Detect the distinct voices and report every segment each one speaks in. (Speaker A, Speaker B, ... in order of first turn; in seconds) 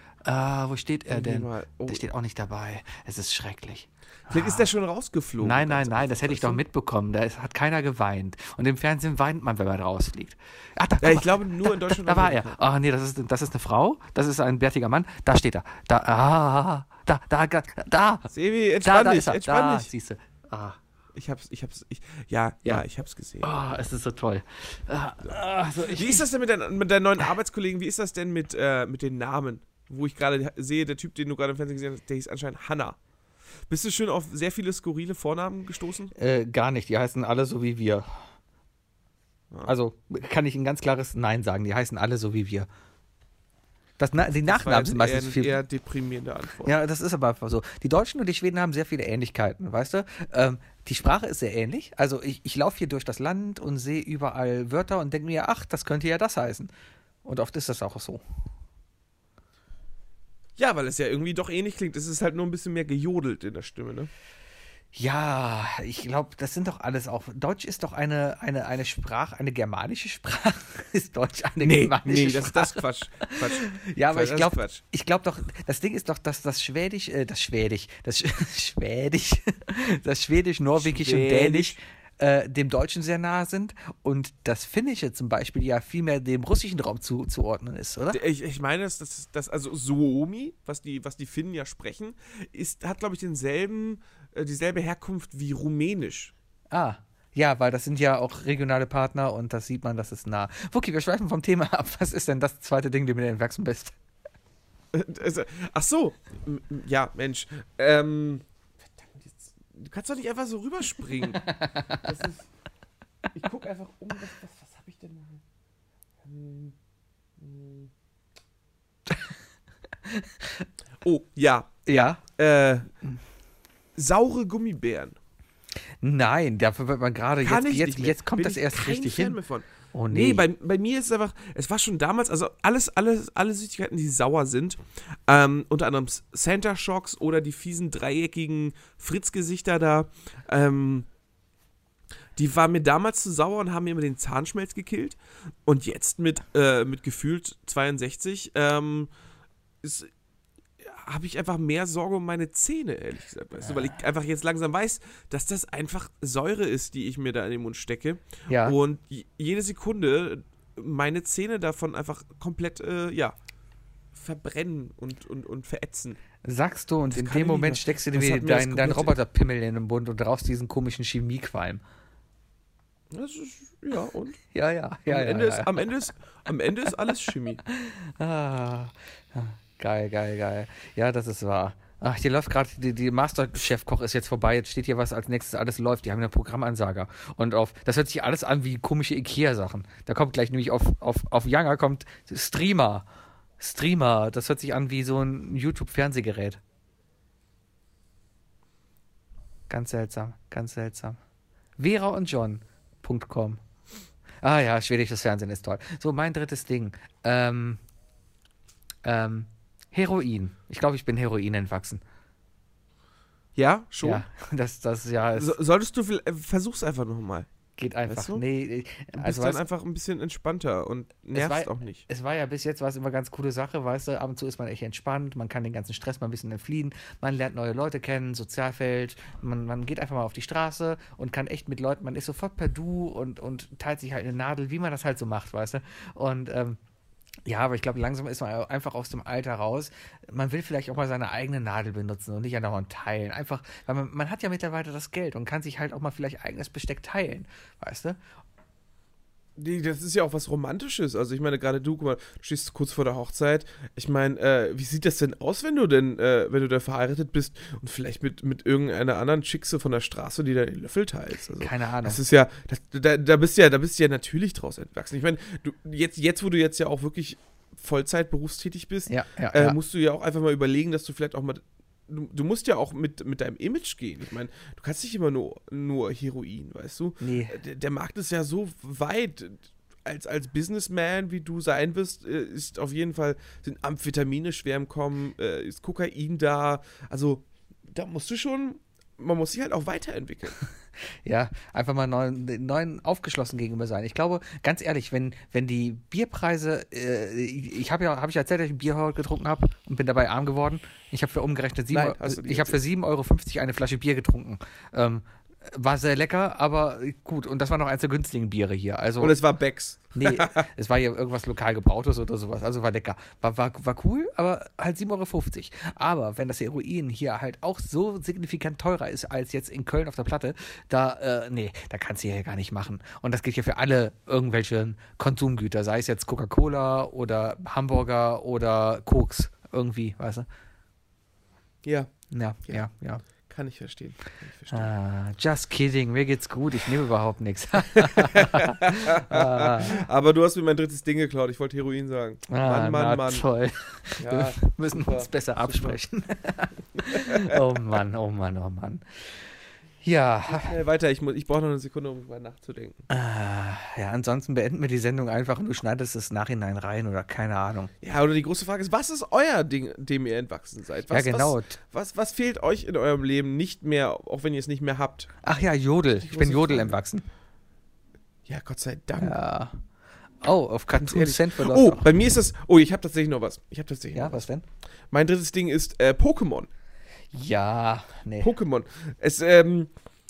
Speaker A: 0.2-4.7, 5.4-18.3, 18.8-20.8, 23.4-26.3, 36.1-38.1, 39.6-42.7, 44.0-45.5, 46.6-56.7, 57.2-58.2, 64.9-88.2, 96.7-104.0, 111.5-112.0, 120.1-120.7, 121.9-122.2, 126.0-129.4, 129.9-130.5, 158.5-158.8, 166.4-171.8, 174.5-175.9, 177.7-193.1, 193.6-196.6, 199.7-201.2, 201.8-203.6, 204.4-207.8, 209.0-212.0, 214.0-215.6, 217.8-219.6, 221.3-236.8, 237.5-248.2, 261.6-262.2, 269.1-269.8, 277.2-277.6, 291.2-309.4, 310.1-330.5, 332.3-333.2, 334.7-340.0, 342.5-349.1, 350.0-350.7, 353.1-357.9, 361.1-361.8, 365.4-367.3, 369.2-369.8, 370.4-372.1, 374.1-374.6, 377.3-378.5
Speaker B: 1.1-2.0, 4.3-6.6, 11.0-12.6, 18.3-19.9, 21.1-23.6, 25.8-33.0, 33.7-36.1, 44.5-46.7, 60.6-64.1, 71.6-74.8, 80.8-81.8, 88.1-96.3, 104.9-112.5, 113.3-115.4, 116.2-116.8, 117.4-117.9, 121.0-122.9, 124.0-125.2, 127.4-141.1, 142.4-149.1, 149.8-150.1, 150.8-163.4, 164.1-166.2, 167.1-169.1, 173.1-174.4, 175.1-177.6, 213.6-214.2, 215.4-217.5, 218.1-218.4, 219.2-222.0, 249.6-290.6, 301.9-302.8, 309.2-310.6, 331.8-332.1, 333.5-334.9, 337.9-343.5, 344.2-346.0, 347.1-347.8, 350.4-353.1, 358.0-365.3, 366.2-367.0, 368.5-369.4, 371.0-374.5, 375.1-376.7, 378.4-379.9